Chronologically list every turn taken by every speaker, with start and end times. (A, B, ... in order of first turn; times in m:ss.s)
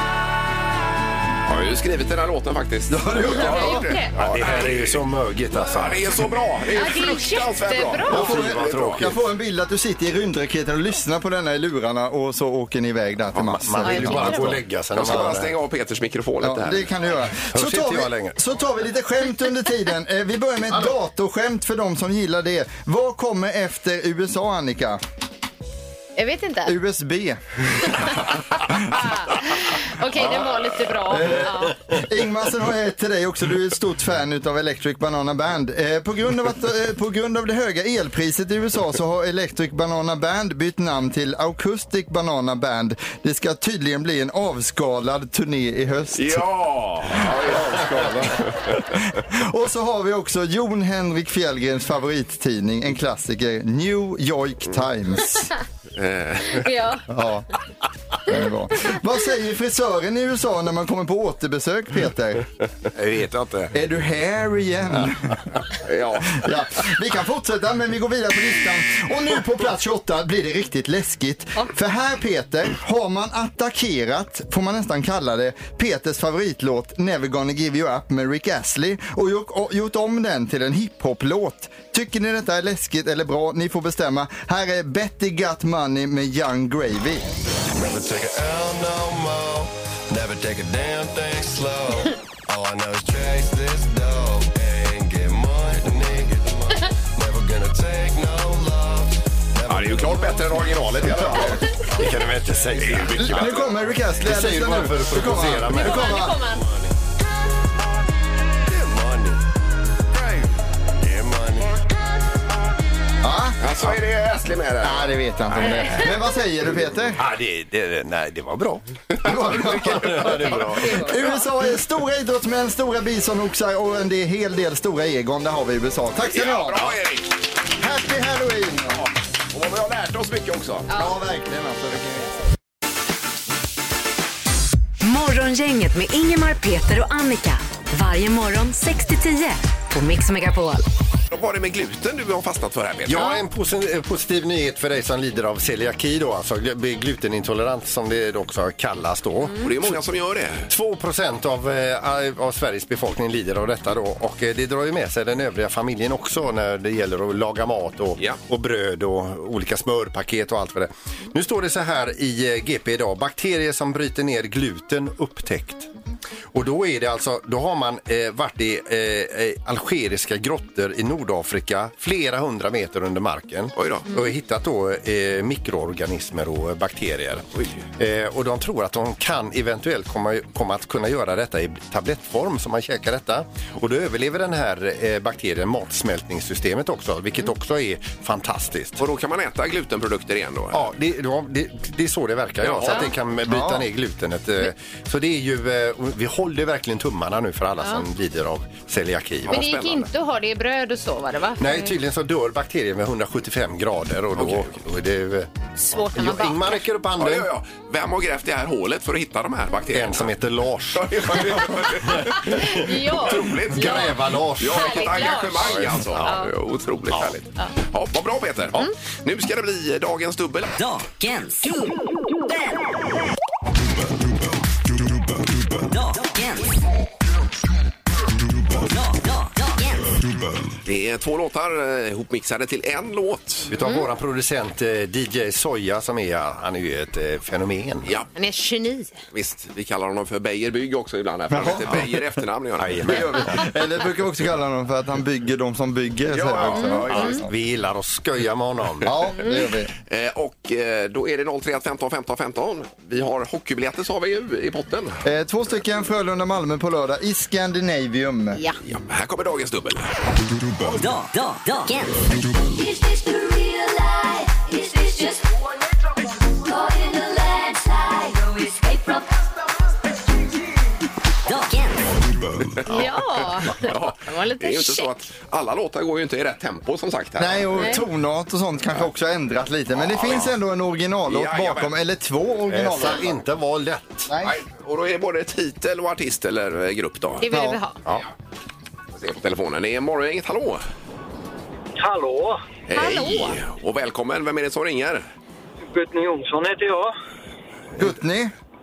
0:01.4-0:09.1 A
0:02.9-0:03.9 B
0:03.4-0:04.1 C
0:04.2-0:06.3 D
0:06.7-0:08.2 C
0:08.0-0:09.1 D
0:08.1-0:14.6 B
0:13.4-0:15.5 D
0:13.8-0:14.6 C
0:14.9-0:16.9 A
0:16.4-0:25.0 B
0:17.5-0:18.4 D
0:26.2-0:26.7 C
0:26.6-0:28.1 B
0:28.9-0:31.8 C
0:31.1-0:46.4 B
0:46.1-0:48.9 A
0:47.1-0:55.5 B
0:56.0-0:56.7 A
0:56.5-0:57.0 C
0:57.1-0:57.5 B
0:58.2-1:02.5 B
1:02.9-1:03.7 D
1:03.7-1:05.5 B
1:05.8-1:06.4 A
1:06.3-1:27.3 B
1:27.7-1:41.4 E
1:39.7-1:41.7 A
1:41.1-1:41.5 B
1:42.0-1:43.6 D
1:42.0-1:42.7 E
1:42.7-1:43.8 A
1:43.2-1:46.4 B
1:44.2-1:46.1 D
1:45.7-1:46.7 C
1:46.4-1:46.9 E
1:48.7-1:49.4 E
1:51.0-1:51.8 E
1:53.2-1:53.6 B
1:53.6-1:55.8 A
1:54.8-1:57.2 B
1:57.2-2:01.0 D
1:59.2-2:07.0 B
1:59.5-2:00.5 A
2:00.7-2:01.5 C
2:06.2-2:07.4 A
2:07.8-2:09.0 B
2:08.9-2:11.0 A
2:10.9-2:12.4 B
2:15.0-2:20.8 F
2:21.3-2:23.3 A
2:23.1-2:30.0 D
2:29.6-2:30.7 A
2:30.7-2:45.9 D
2:46.5-3:09.0 D
2:53.8-2:54.1 A
3:09.0-3:10.9 A
3:10.7-3:19.6 D
3:12.6-3:13.2 A
3:13.4-3:13.9 B
3:19.4-3:20.1 A
3:19.5-3:21.9 C
3:21.6-3:27.5 D
3:24.3-3:24.8 A
3:25.8-3:26.8 C
3:27.2-3:30.3 A
3:29.9-3:32.7 D
3:30.9-3:40.7 A
3:32.4-3:36.5 C
3:33.2-3:35.0 D
3:35.6-3:36.4 D
3:40.8-3:42.8 G
3:45.8-3:46.8 G
3:48.7-3:50.1 G
3:50.8-3:53.7 A
3:53.7-3:58.1 D
3:58.0-3:58.3 A
3:58.4-3:59.2 C
3:59.3-4:03.5 A
4:01.5-4:02.2 B
4:02.8-4:03.6 D
4:03.3-4:07.5 B
4:06.3-4:07.3 A
4:06.7-4:07.4 C
4:06.7-4:09.1 D
4:09.0-4:09.9 B
4:10.1-4:15.2 A
4:15.2-4:18.6 B
4:18.9-4:20.1 A
4:20.8-4:25.7 G
4:26.5-4:29.4 G
4:31.4-4:32.2 G
4:32.8-4:35.1 C
4:32.9-4:33.1 D
4:33.8-4:38.0 A
4:37.4-4:43.4 B
4:37.8-4:38.0 C
4:40.0-4:40.5 A
4:41.3-4:41.9 A
4:42.7-4:44.3 D
4:44.2-4:44.5 B
4:44.4-4:47.4 A
4:47.4-4:48.0 C
4:47.5-4:47.8 B
4:49.1-4:50.8 A
4:52.0-4:52.6 H
4:52.9-4:55.2 A
4:52.9-4:53.6 C
4:55.9-4:57.1 H
4:58.0-4:58.5 B